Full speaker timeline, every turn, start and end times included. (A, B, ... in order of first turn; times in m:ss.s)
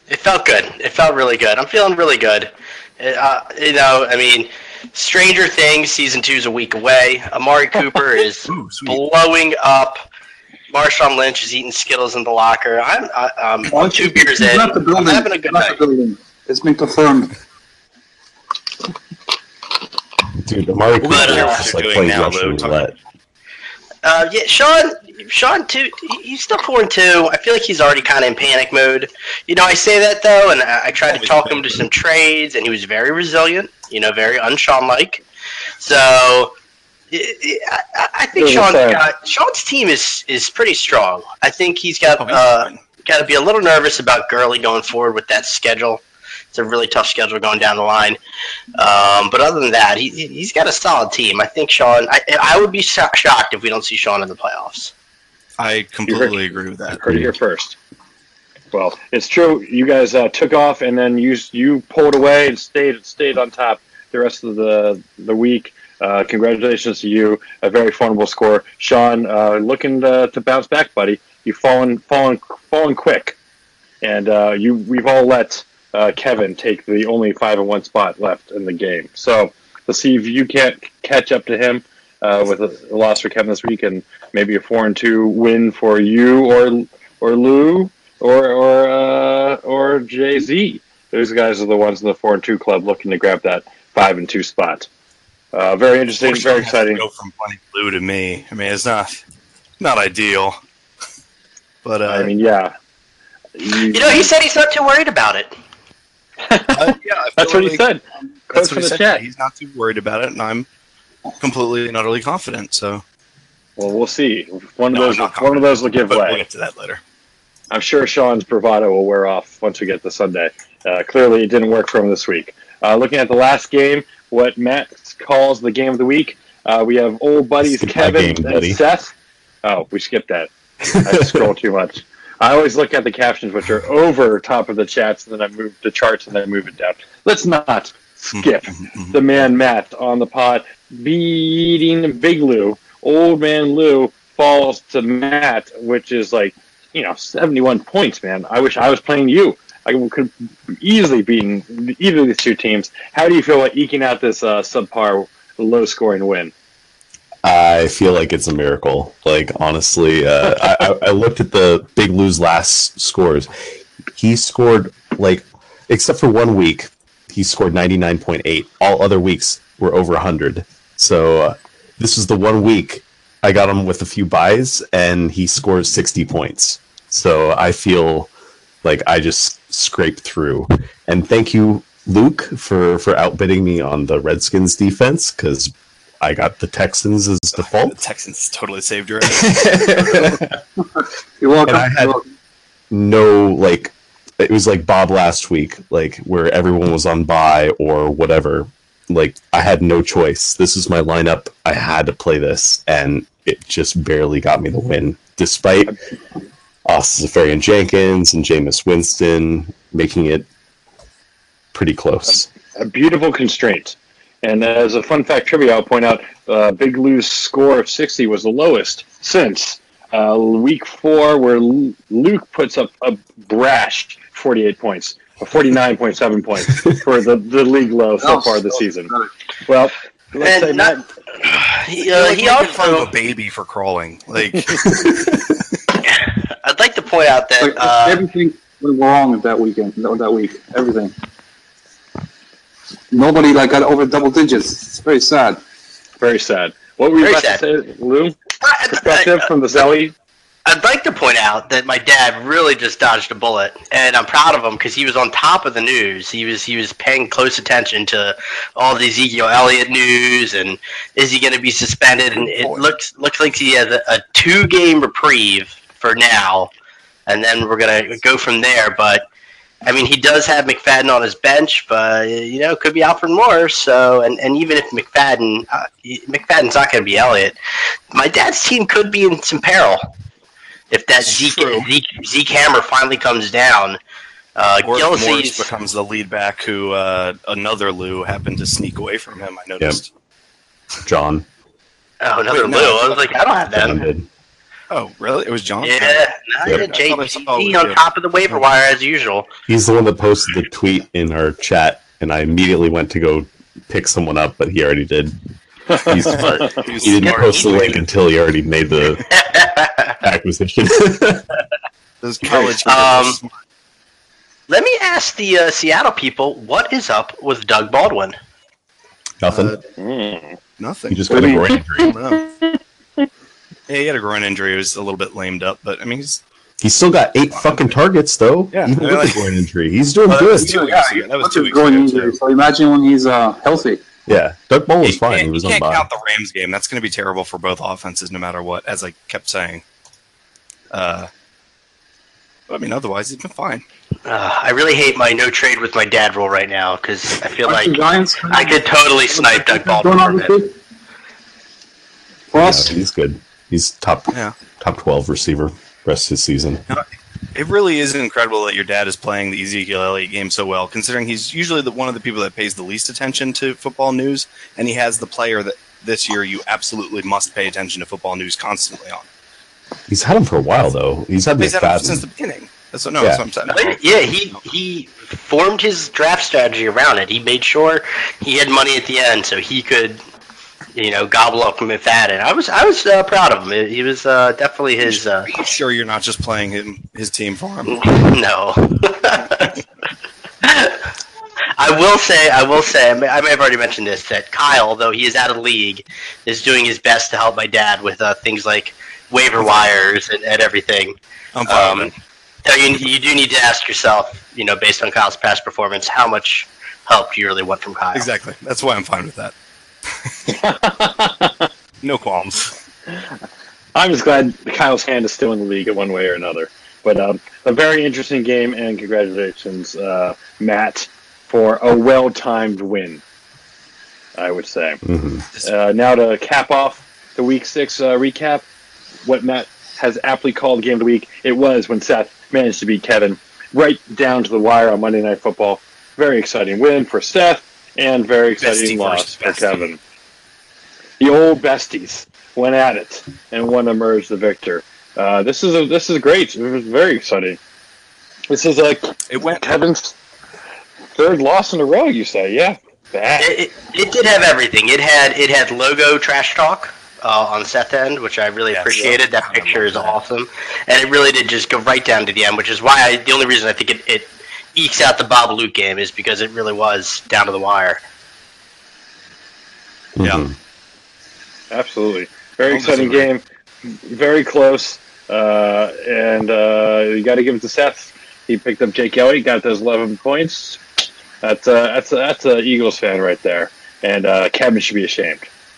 0:00.1-0:10.0 A
0:08.5-0:09.0 B
0:10.7-0:15.8 A
0:13.7-0:17.3 C
0:20.4-0:22.9 D
0:21.0-0:22.9 B
0:21.1-0:21.7 A
0:24.0-0:35.2 A
0:31.1-0:31.9 B
0:35.8-0:36.5 A
0:37.1-0:46.0 A
0:38.4-0:39.0 E
0:42.0-0:42.8 B
0:46.5-0:48.2 A
0:48.8-0:54.9 A
0:55.6-0:57.2 B
0:56.1-0:56.4 E
0:56.9-0:57.8 E
0:58.7-1:13.4 E
1:14.0-1:34.9 E
1:35.5-1:37.0 E
1:36.2-1:39.2 B
1:39.8-1:40.6 B
1:41.8-1:42.3 B
1:42.1-1:42.7 E
1:43.6-1:44.3 E
1:43.9-1:45.5 A
1:46.5-1:49.2 E
1:46.7-1:47.8 B
1:48.5-1:50.7 B
1:51.4-1:53.0 B
1:53.8-1:56.4 E
1:54.9-1:57.0 B
1:57.7-2:10.5 E
2:07.6-2:08.8 D
2:11.0-2:11.4 D
2:11.0-2:36.5 E
2:18.4-2:19.2 B
2:37.4-2:43.5 D
2:44.1-2:58.3 D
2:58.8-3:08.0 D
3:07.6-3:10.4 B
3:09.3-3:10.5 D
3:11.4-3:12.2 C
3:11.7-3:12.2 D
3:12.9-3:26.0 D
3:26.8-3:30.5 D
3:31.7-3:32.5 D
3:32.8-3:49.1 E
3:48.2-3:49.3 C
3:49.7-3:51.0 E
3:50.4-3:53.1 A
3:52.0-3:54.9 B
3:54.9-3:55.4 D
3:56.0-3:58.2 A
3:57.6-4:01.1 C
4:03.1-4:05.6 C
4:06.2-4:08.4 E
4:07.2-4:07.6 A
4:08.6-4:09.5 A
4:08.9-4:10.1 E
4:10.7-4:26.7 A
4:22.4-4:22.9 B
4:27.3-4:29.3 A
4:29.8-4:37.6 A
4:38.1-4:40.0 A
4:40.9-4:44.0 A
4:41.2-4:41.9 B
4:44.6-4:45.7 A
4:44.8-4:50.1 B
4:51.0-4:51.4 D
4:52.2-4:54.0 A
4:52.5-4:53.4 B
4:53.7-4:54.3 D
4:54.9-4:58.6 B
4:55.8-4:59.5 A
4:59.7-5:05.4 D
5:05.9-5:06.2 E
5:06.0-5:09.2 D
5:06.2-5:08.0 B
5:07.2-5:08.0 A
5:09.3-5:10.2 A
5:10.2-5:11.5 D
5:12.2-5:13.5 B
5:12.5-5:13.4 A
5:14.7-5:18.4 A
5:19.4-5:19.8 D
5:19.5-5:19.8 B
5:20.0-5:20.6 E
5:20.8-5:22.5 B
5:21.1-5:22.2 D
5:23.9-5:26.4 B
5:26.8-5:30.8 D
5:28.7-5:29.6 B
5:30.3-5:32.4 B
5:30.6-5:34.0 C
5:34.3-5:36.1 D
5:35.0-5:39.8 B
5:40.9-5:41.3 B
5:42.7-5:43.8 B
5:44.3-5:50.6 A
5:47.6-5:50.8 C
5:52.5-5:53.0 C
5:52.6-5:56.9 D
5:56.9-6:09.3 B
6:10.1-6:12.2 D
6:11.6-6:14.6 B
6:13.2-6:13.4 D
6:13.7-6:20.2 A
6:21.0-6:25.5 A
6:25.0-6:28.0 B
6:27.9-6:29.8 A
6:30.6-6:31.0 A
6:31.8-6:41.2 A
6:39.6-6:39.9 B
6:41.5-6:42.1 B
6:41.7-6:42.1 A
6:42.6-6:48.3 A
6:48.1-6:49.5 B
6:50.5-6:51.7 E
6:52.0-6:52.8 B
6:54.0-7:03.2 E
7:04.4-7:05.0 E
7:05.0-7:05.5 D
7:05.6-7:08.6 E
7:09.2-7:20.0 E
7:18.6-7:19.9 B
7:21.2-7:27.6 E
7:28.5-7:30.2 E
7:29.3-7:29.8 B
7:31.2-7:33.5 E
7:33.4-7:48.0 A
7:38.7-7:40.2 B
7:38.9-7:39.2 E
7:50.2-7:50.6 D
7:51.7-7:53.4 E
7:52.7-7:53.3 B
7:54.1-8:00.8 E
8:01.4-8:05.5 E